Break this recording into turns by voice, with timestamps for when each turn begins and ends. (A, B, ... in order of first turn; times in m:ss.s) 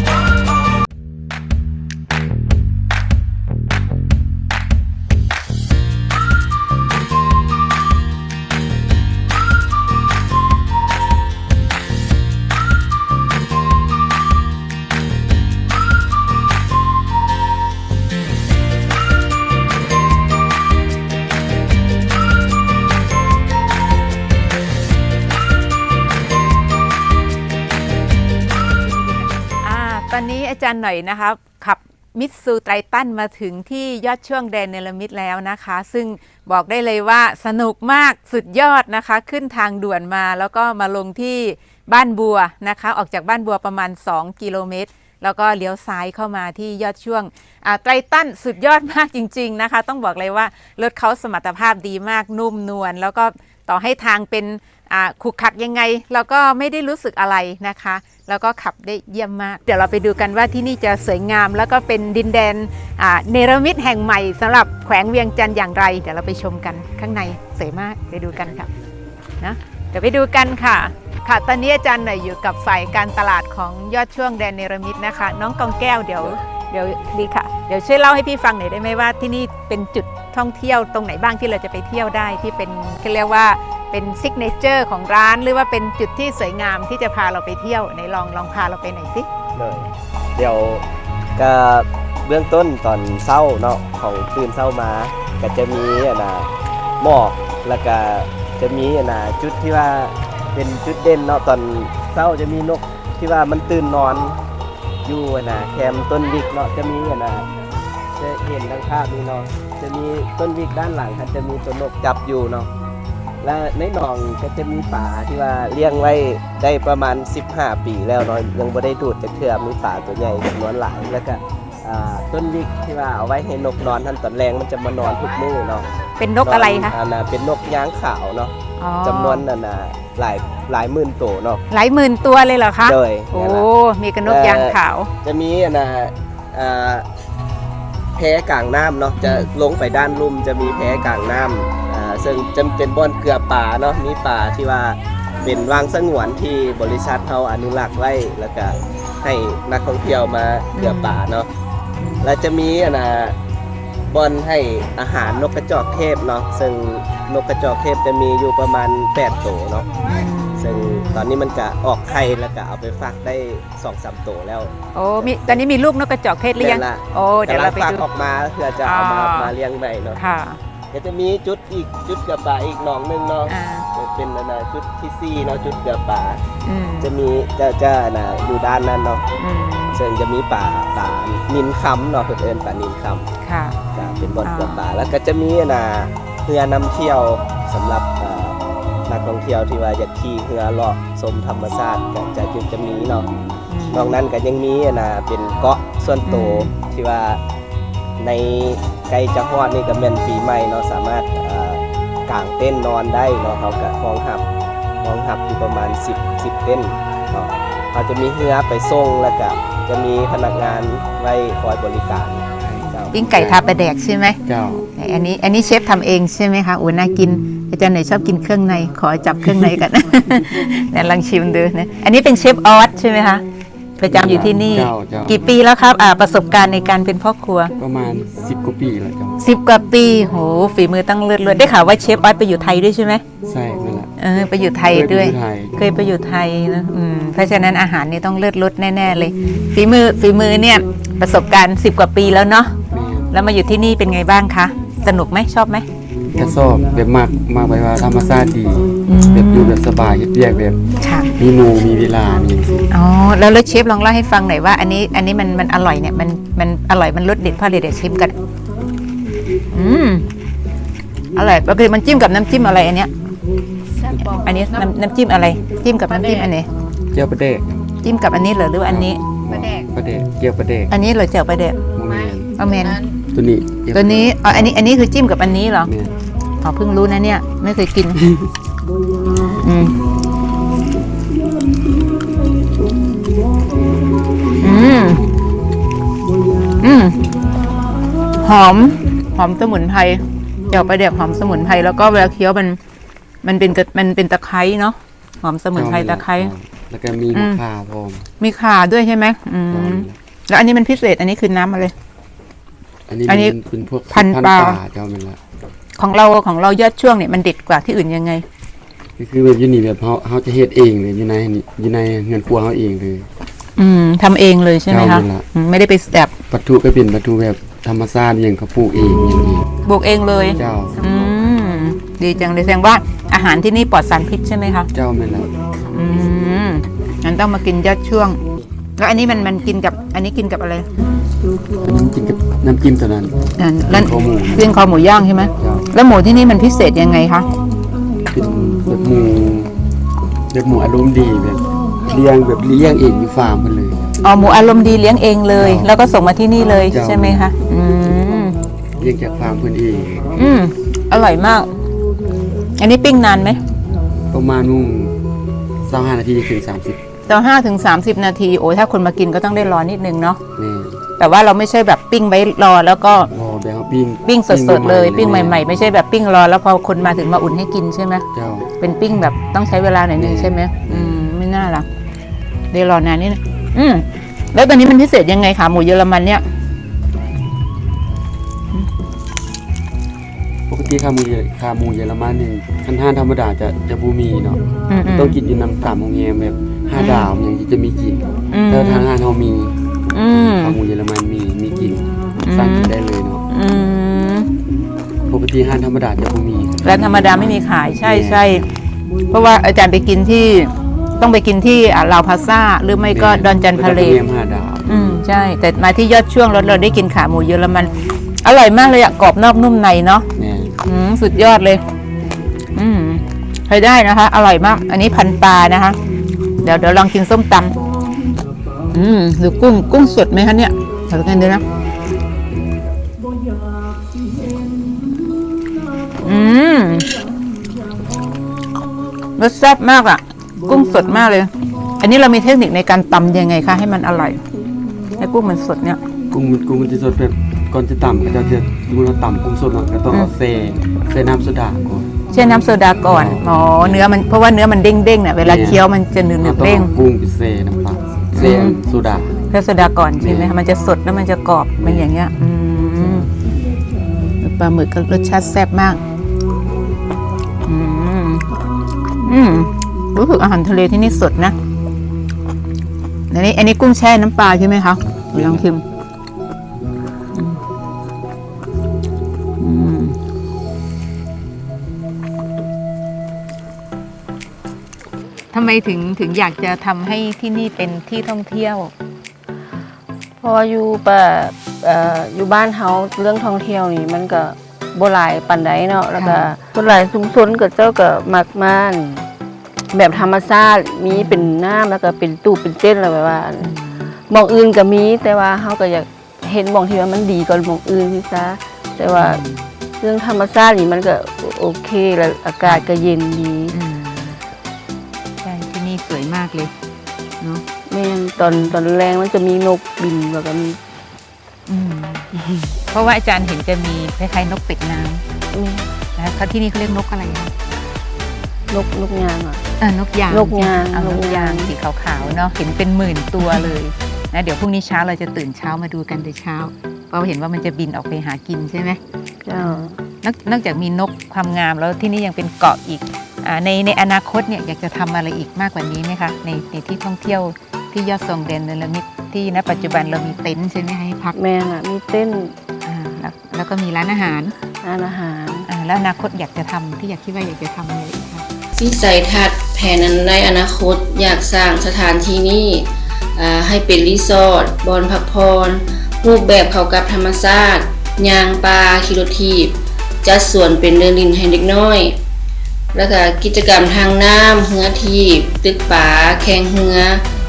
0:29.1-1:08.7 A
1:09.4-1:29.3 A
1:29.5-1:30.8 B
1:31.4-1:44.4 B
1:45.0-1:47.5 B
1:48.2-1:52.7 B
1:53.4-2:05.9 B
2:06.2-2:07.0 A
2:06.4-2:11.6 B
2:08.8-2:09.4 A
2:11.7-2:15.1 A
2:12.8-2:13.7 B
2:14.2-2:17.0 B
2:18.2-2:31.5 B
2:19.2-2:19.5 A
2:30.7-2:31.2 A
2:32.0-2:32.3 A
2:32.2-2:33.4 B
2:34.1-2:39.9 B
2:40.0-2:41.2 A
2:40.6-2:45.6 B
2:44.9-2:48.0 A
2:46.6-2:50.2 B
2:48.8-2:49.5 A
2:50.2-2:50.6 A
2:50.9-2:56.4 B
2:53.5-2:53.9 A
2:56.6-2:57.1 A
2:57.0-2:59.2 B
2:59.4-3:00.0 A
2:59.9-3:03.2 B
3:03.4-3:03.8 A
3:03.9-3:08.6 B
3:04.4-3:04.8 A
3:09.1-3:13.3 B
3:13.7-3:14.2 A
3:13.9-3:17.4 B
3:16.2-3:16.7 A
3:18.2-3:24.4 B
3:25.0-3:33.1 B
3:32.6-3:33.6 C
3:33.1-3:34.4 A
3:34.4-3:34.9 C
3:34.9-3:43.4 A
3:44.0-3:47.7 A
3:44.1-3:45.4 C
3:47.8-3:49.4 C
3:49.4-3:53.2 A
3:53.4-3:54.1 C
3:54.2-4:02.7 A
3:54.9-3:55.8 C
4:02.9-4:03.3 C
4:03.3-4:05.8 A
4:06.3-4:10.8 C
4:09.1-4:09.8 A
4:11.0-4:11.3 A
4:11.4-4:12.9 C
4:12.9-4:18.4 A
4:19.7-4:20.3 A
4:21.3-4:23.1 A
4:24.4-4:26.7 A
4:27.1-4:27.8 C
4:28.0-4:29.8 A
4:28.8-4:30.9 C
4:30.9-4:31.8 A
4:32.0-4:32.5 C
4:32.6-4:33.0 A
4:33.3-4:34.7 C
4:33.9-4:35.9 A
4:35.8-4:36.1 C
4:36.6-4:38.2 A
4:39.5-4:40.0 A
4:44.6-4:45.2 A
4:46.8-4:47.2 A
4:48.4-4:52.8 A
4:53.4-4:56.5 A
4:55.7-4:58.3 C
4:57.3-4:57.6 A
4:58.4-5:01.9 A
4:59.7-5:00.2 C
5:03.1-5:05.4 C
5:03.3-5:03.6 A
5:04.1-5:04.8 A
5:06.0-5:08.4 A
5:09.2-5:13.3 C
5:13.8-5:16.3 A
5:14.9-5:15.4 C
5:16.5-5:19.7 C
5:19.8-5:24.9 A
5:20.5-5:21.0 C
5:24.9-5:25.5 C
5:25.9-5:28.4 A
5:29.0-5:30.9 A
5:31.8-5:34.8 C
5:33.6-5:37.5 A
5:35.6-5:35.9 C
5:38.3-5:39.7 C
5:40.5-5:44.1 C
5:44.2-5:48.6 A
5:45.5-5:45.9 C
5:46.6-5:47.5 C
5:49.0-5:50.3 C
5:50.3-5:51.7 A
5:52.8-5:53.6 A
5:54.3-5:55.2 C
5:55.8-5:57.0 C
5:57.3-6:00.4 A
6:00.6-6:01.0 C
6:01.2-6:03.3 A
6:03.3-6:05.9 C
6:04.2-6:08.2 A
6:08.3-6:08.7 C
6:08.8-6:11.8 A
6:10.2-6:11.2 C
6:12.7-6:16.4 A
6:20.7-6:29.8 C
6:24.9-6:25.4 A
6:26.9-6:27.3 A
6:28.5-6:29.1 A
6:30.1-6:30.8 A
6:30.6-6:33.4 C
6:32.4-6:32.9 A
6:33.5-6:34.5 A
6:35.3-6:38.8 C
6:36.8-6:38.6 A
6:39.3-6:44.2 A
6:43.1-6:45.2 C
6:44.9-6:47.9 A
6:48.4-6:50.3 A
6:50.4-6:50.8 C
6:50.8-6:51.8 A
6:52.7-6:56.0 A
6:56.6-6:57.8 A
6:58.9-7:01.6 A
7:06.2-7:07.1 A
7:09.4-7:14.4 A
7:15.2-7:16.0 A
7:16.3-7:22.2 C
7:22.3-7:26.9 A
7:23.0-7:24.1 C
7:25.4-7:25.8 C
7:26.4-7:29.4 C
7:28.3-7:28.8 A
7:29.5-7:33.3 A
7:30.2-7:30.5 C
7:31.8-7:32.1 C
7:34.4-7:36.0 A
7:37.6-7:38.5 A
7:39.2-7:41.5 A
7:43.3-7:45.8 A
7:45.3-7:45.6 C
7:49.6-7:50.2 A
7:55.5-7:58.9 A
8:00.4-8:09.3 D
8:06.2-8:06.5 A
8:09.9-8:19.4 D
8:11.1-8:11.5 A
8:13.6-8:14.1 A
8:19.1-8:19.7 A
8:20.0-8:23.8 D
8:22.6-8:22.9 A
8:23.7-8:24.4 A
8:25.4-8:26.7 A
8:27.9-8:30.8 D
8:28.4-8:28.8 A
8:31.7-8:32.3 A
8:32.9-8:35.2 A
8:35.5-8:35.9 D
8:36.2-8:37.5 A
8:38.7-8:39.6 D
8:39.8-8:49.0 A
8:40.3-8:41.7 D
8:43.4-8:43.7 D
8:49.4-8:50.0 D
8:49.5-9:01.4 A
9:01.3-9:02.5 D
9:02.8-9:04.6 A
9:04.8-9:05.7 D
9:05.7-9:08.4 A
9:08.8-9:22.2 E
9:22.9-9:27.2 E